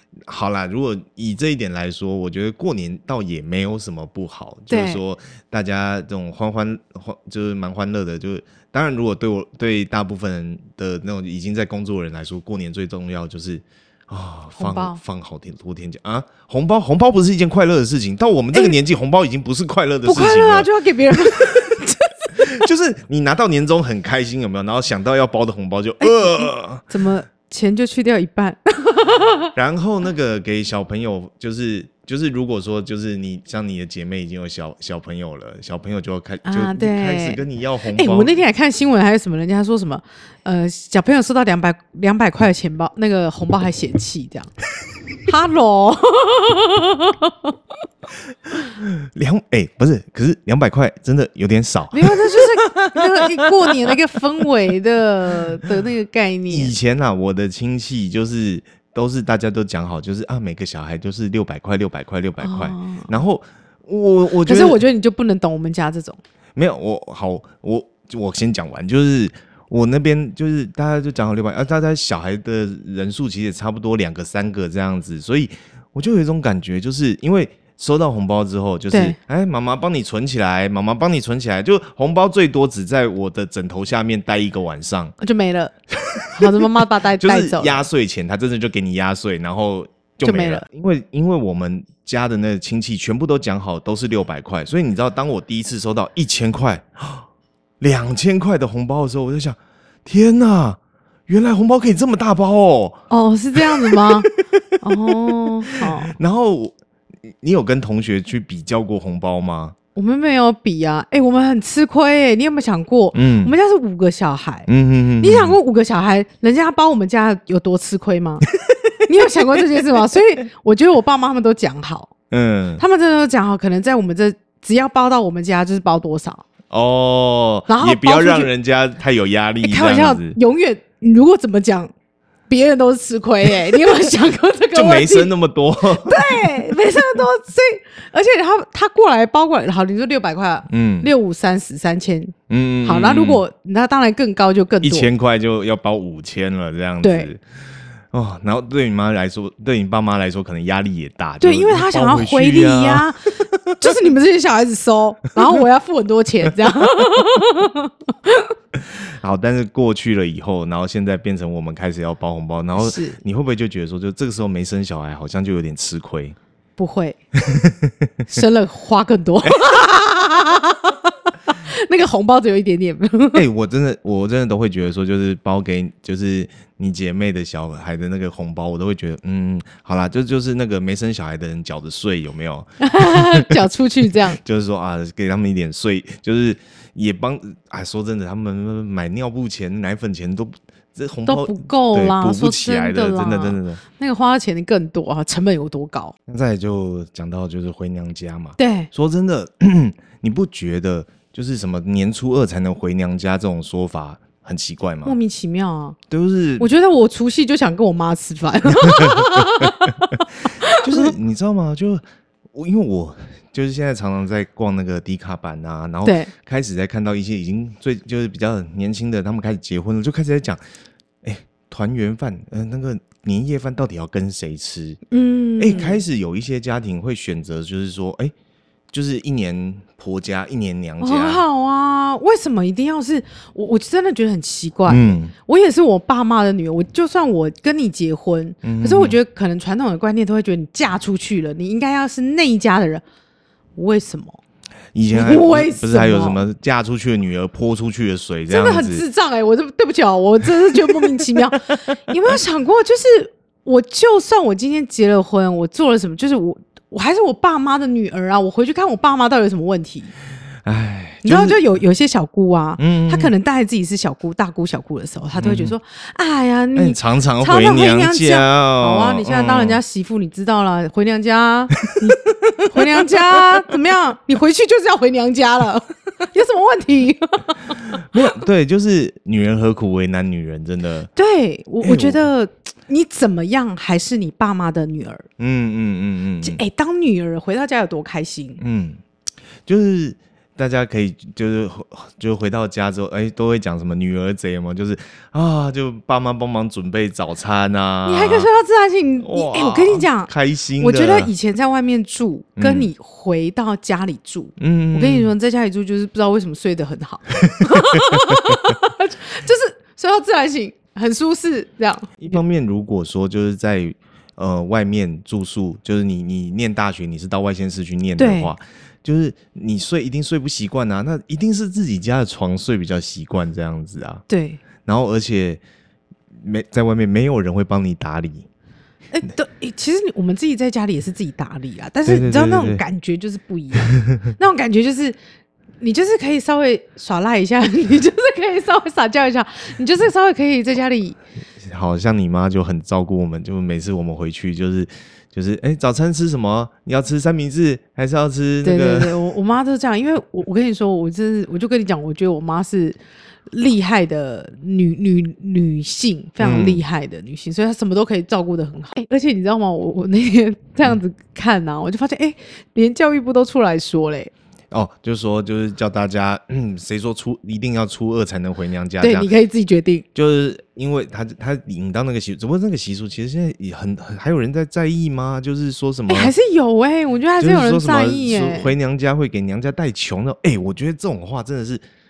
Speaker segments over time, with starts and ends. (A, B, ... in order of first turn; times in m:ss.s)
0:00.2-0:21.7 A
0:04.7-0:05.0 B
0:14.6-0:15.0 B
0:20.0-0:22.5 B
0:22.4-0:26.8 A
0:26.0-0:29.5 B
0:29.5-0:38.3 A
0:36.4-0:37.4 B
0:37.9-0:44.5 B
0:45.2-0:47.5 B
0:48.5-0:53.9 A
0:51.9-0:56.7 B
0:56.5-1:04.8 A
1:02.4-1:03.1 B
1:04.4-1:06.2 B
1:06.6-1:25.1 A
1:18.9-1:19.2 B
1:25.2-1:25.7 B
1:26.0-1:37.3 A
1:26.3-1:27.9 B
1:30.2-1:30.6 B
1:37.8-1:43.0 A
1:43.1-1:46.2 B
1:43.5-1:49.7 A
1:50.0-1:54.7 B
1:53.1-1:53.5 A
1:54.7-1:55.6 A
1:55.2-1:58.5 B
1:58.6-1:59.4 A
1:59.0-2:02.1 B
2:02.3-2:02.8 A
2:02.8-2:06.4 B
2:06.7-2:10.4 A
2:07.7-2:08.5 B
2:09.6-2:11.9 B
2:12.5-2:15.3 B
2:14.7-2:16.6 A
2:16.0-2:25.1 B
2:20.7-2:21.1 A
2:22.5-2:23.4 A
2:24.8-2:27.4 A
2:27.0-2:27.3 B
2:28.1-2:33.9 A
2:31.4-2:38.5 B
2:38.9-2:46.4 A
2:42.8-2:43.2 B
2:46.8-2:47.2 B
2:47.4-2:48.1 A
2:48.3-2:53.4 B
2:49.4-2:49.7 A
2:53.3-3:03.5 A
3:02.8-3:04.4 B
3:04.4-3:13.8 A
3:11.2-3:16.1 B
3:16.3-3:25.1 A
3:18.6-3:18.9 B
3:25.0-3:26.0 B
3:26.1-3:26.7 A
3:26.6-3:31.1 B
3:28.8-3:29.9 A
3:30.7-3:40.6 A
3:36.0-3:36.3 B
3:41.2-3:45.0 A
3:45.1-3:46.0 B
3:45.6-3:48.3 A
3:48.9-3:51.4 A
3:51.0-4:03.0 B
3:54.9-3:55.3 A
3:58.6-3:59.2 A
4:03.8-4:04.4 B
4:04.9-4:09.0 A
4:05.1-4:06.4 B
4:08.5-4:20.1 B
4:20.6-4:21.6 A
4:21.2-4:38.0 B
4:22.8-4:23.3 A
4:25.3-4:25.7 A
4:26.8-4:29.8 A
4:32.4-4:33.4 A
4:37.9-4:41.1 A
4:41.2-4:45.3 B
4:41.8-4:42.3 A
4:45.4-4:46.6 A
4:46.4-4:48.6 B
4:48.6-4:49.0 A
4:49.6-4:58.5 A
4:58.0-5:12.4 B
4:59.2-5:01.3 A
5:02.6-5:02.9 A
5:04.6-5:05.3 A
5:07.6-5:08.7 A
5:12.2-5:24.2 A
5:18.2-5:18.5 B
5:24.3-5:24.6 B
5:24.8-5:25.6 A
5:26.3-5:28.5 A
5:29.1-5:35.2 B
5:32.0-5:32.8 A
5:35.8-5:41.2 B
5:41.6-5:49.1 A
5:48.6-5:53.0 B
5:53.5-6:04.3 B
5:56.4-5:56.8 A
6:04.7-6:09.3 A
6:09.0-6:10.0 B
6:10.1-6:16.3 A
6:16.1-6:18.7 B
6:17.4-6:21.8 A